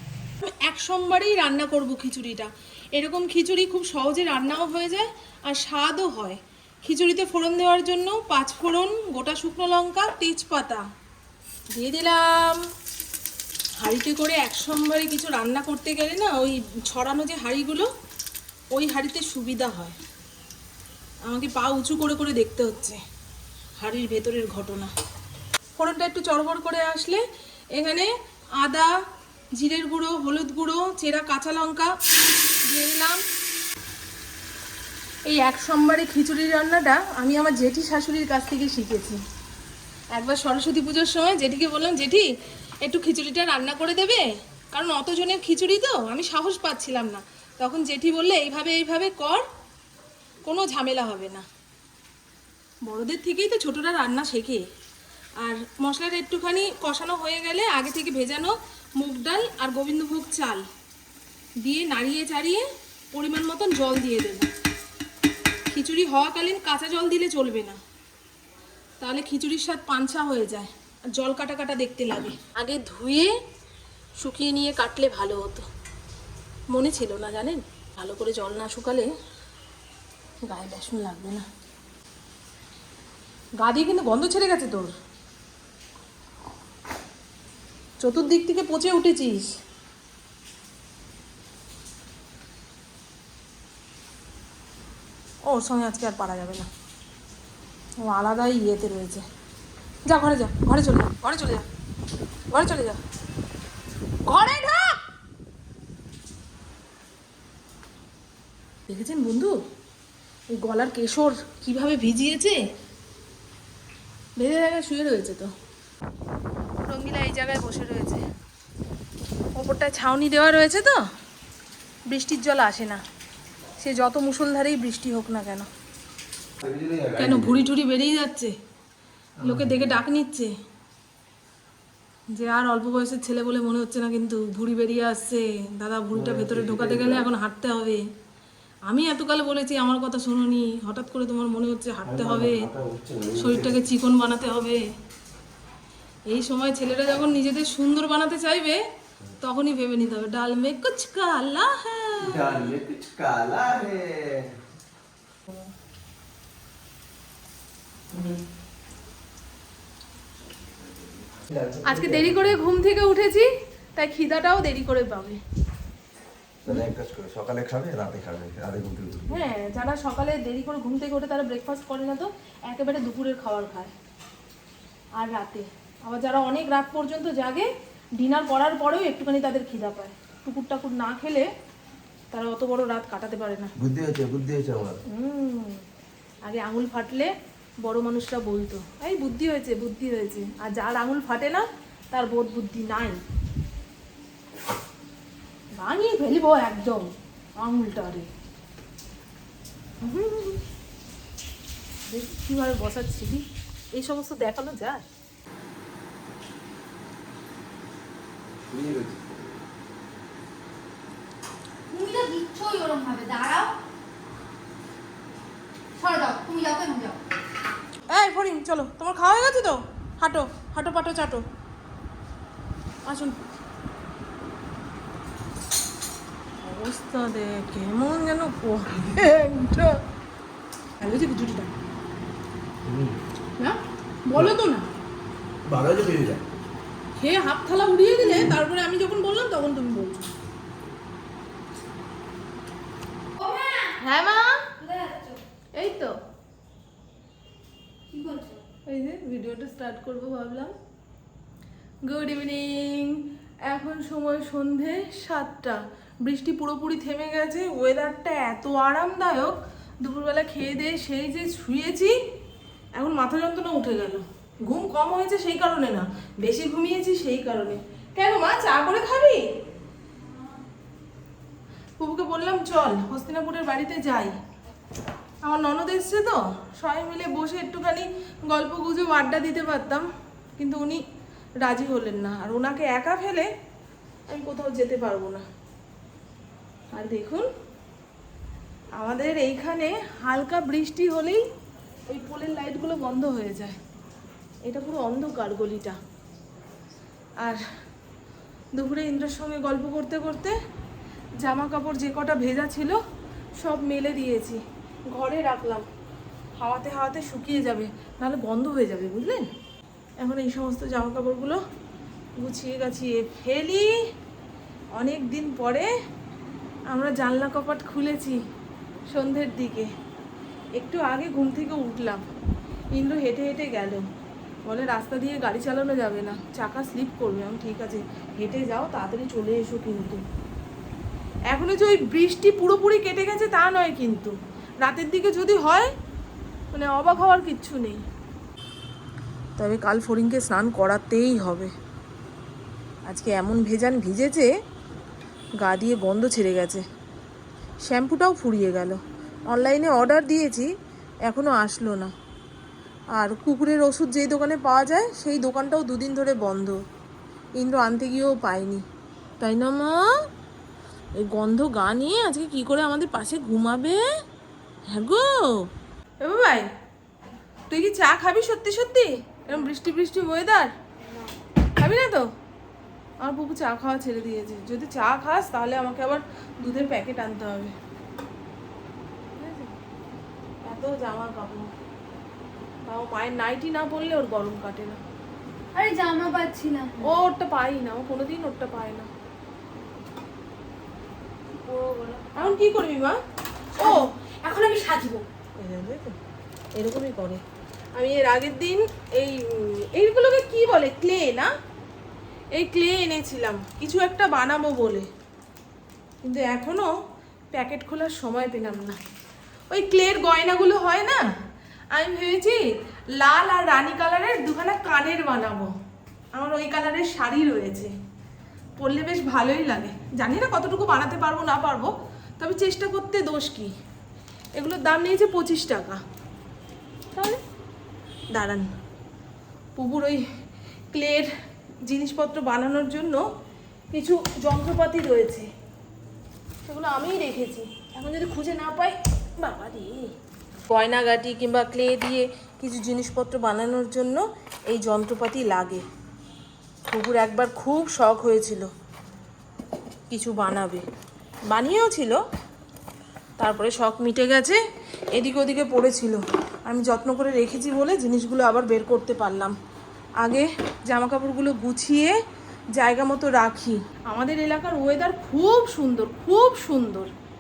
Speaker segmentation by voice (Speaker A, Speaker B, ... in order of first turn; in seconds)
Speaker A: 0.4-10.8, 11.7-12.7, 13.8-17.9, 18.7-20.0, 21.2-23.0, 23.8-24.9, 25.8-29.0, 29.5-31.9, 32.6-33.2, 35.3-39.2, 40.1-42.3, 42.8-49.5, 50.5-51.5, 52.8-54.7, 55.4-60.7, 61.6-64.5, 65.7-67.8, 69.0-73.4, 74.2-75.7, 76.7-79.1, 80.5-81.5, 83.6-85.0, 88.0-89.5, 95.5-96.7, 98.0-99.2, 100.0-101.7, 102.5-103.0, 104.3-105.0, 108.9-109.6, 110.6-112.6, 114.4-115.5, 116.9-118.2, 119.5-121.1, 122.1-123.0, 123.8-125.7, 127.2-128.6, 129.4-130.5, 132.3-138.0, 138.9-142.7, 143.3-144.9, 146.3-148.8, 149.4-152.6, 161.8-165.4, 169.3-173.9, 175.2-181.5, 182.3-183.7, 185.1-185.8, 186.4-187.3, 187.8-193.2, 195.8-198.3, 200.0-200.6, 202.1-205.0, 218.1-221.4, 223.1-223.4, 226.6-230.0, 231.0-231.7, 233.6-234.9, 237.2-240.2, 244.0-244.7, 245.8-246.2, 248.9-250.7, 252.0-262.2, 263.0-269.4, 272.0-274.4, 275.4-281.0, 281.6-283.5, 284.3-285.4, 286.9-287.5, 289.0-291.4, 292.1-293.8, 294.6-296.0, 298.8-300.6, 301.4-303.0, 303.6-305.9, 306.6-309.5, 310.2-311.6, 312.4-313.9, 314.9-315.9, 316.9-318.4, 319.1-319.9, 320.8-322.2, 322.9-324.1, 324.6-330.2, 331.5-335.9, 336.7-338.0, 339.6-341.7, 343.1-344.5, 345.6-346.9, 347.8-350.7, 351.2-352.1, 353.1-356.8, 357.6-358.8, 359.4-360.2, 361.2-364.0, 364.9-366.7, 367.7-370.7, 371.8-372.3, 373.2-377.8, 379.3-379.8, 380.6-381.7, 382.8-385.0, 387.0-389.1, 392.3-393.2, 395.6-396.2, 396.8-397.4, 397.9-401.5, 402.5-405.1, 406.2-406.9, 407.5-409.0, 409.7-411.3, 411.9-415.7, 416.3-417.9, 418.8-423.7, 424.6-426.0, 427.1-427.4, 428.3-428.7, 429.8-430.2, 430.9-431.3, 431.8-433.3, 433.9-435.5, 436.7-440.1, 440.7-445.9, 446.9-448.7, 450.1-450.9, 451.5-452.2, 453.4-454.6, 455.1-459.6, 460.2-462.2, 462.8-467.1
Speaker B: 126.6-127.6, 129.4-129.9, 136.1-137.3, 142.1-143.8, 152.2-154.5, 161.5-162.6, 166.7-169.4, 183.8-185.0, 208.7-209.4, 232.8-233.2, 235.7-236.4
Speaker C: 211.9-213.7, 216.0-217.2, 243.4-244.0, 244.8-245.4, 248.1-248.6, 385.8-387.2, 391.6-392.5, 393.8-395.3